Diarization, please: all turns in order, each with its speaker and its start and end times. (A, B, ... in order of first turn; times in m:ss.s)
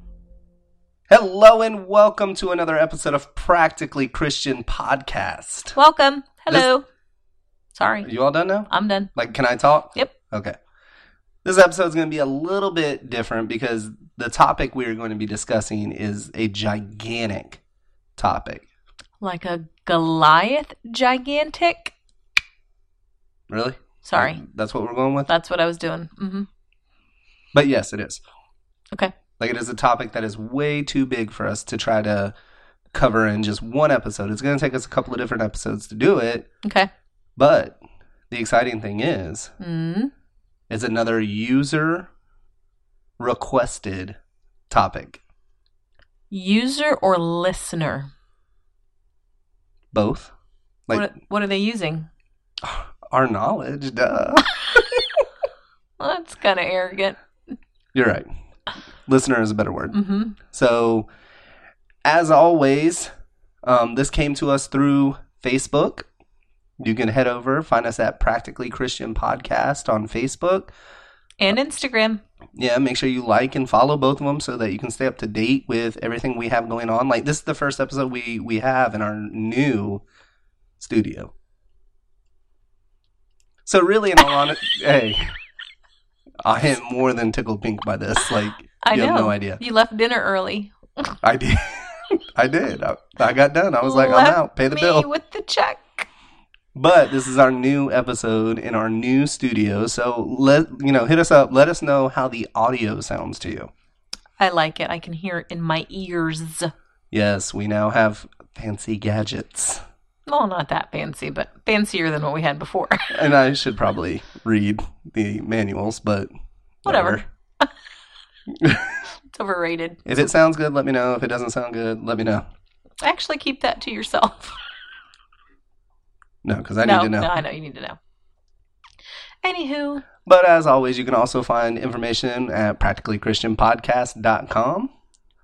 0:01.1-0:05.8 A
0:05.7-0:06.8 B
0:07.8-0:08.1 B
0:08.0-0:10.6 A
0:08.7-0:09.1 B
0:11.4-0:17.6 A
0:18.2-0:18.6 A
0:19.2-0:21.9 B
0:23.5-0:25.3 A
0:24.0-0:24.4 B
0:25.3-0:26.5 B
0:27.5-0:28.2 A
0:29.4-0:32.3 A
0:32.9-0:36.5 A
0:36.6-0:36.9 B
0:37.4-0:37.8 A
0:38.3-0:39.5 A
0:39.6-0:40.1 B
0:40.7-0:42.1 A
0:43.2-0:44.2 A
0:44.7-0:45.2 A
0:46.3-0:48.1 B
0:49.9-0:50.3 A
0:50.9-0:52.1 B
0:52.6-0:55.2 A
0:56.0-0:57.2 B
0:57.9-0:58.3 A
0:59.1-1:01.1 A
0:59.9-1:00.4 B
1:02.0-1:03.1 A
1:03.6-1:06.1 A
1:06.8-1:10.7 A
1:11.4-1:12.2 B
1:12.6-1:20.0 A
1:20.8-1:21.3 A
1:23.6-1:25.3 A
1:26.4-1:29.6 A
1:28.8-1:31.2 B
1:31.2-1:35.1 A
1:33.8-1:36.1 B
1:36.8-1:43.7 A
1:44.4-1:46.7 B
1:47.1-1:49.8 A
1:50.3-1:53.1 B
1:53.1-1:56.3 A
1:56.8-1:57.2 A
1:56.9-1:57.7 B
1:58.5-1:59.0 A
1:59.3-2:00.0 B
2:00.1-2:02.4 A
2:03.0-2:04.6 B
2:06.4-2:07.3 A
2:06.8-2:08.0 B
2:09.4-2:10.1 B
2:10.2-2:14.9 A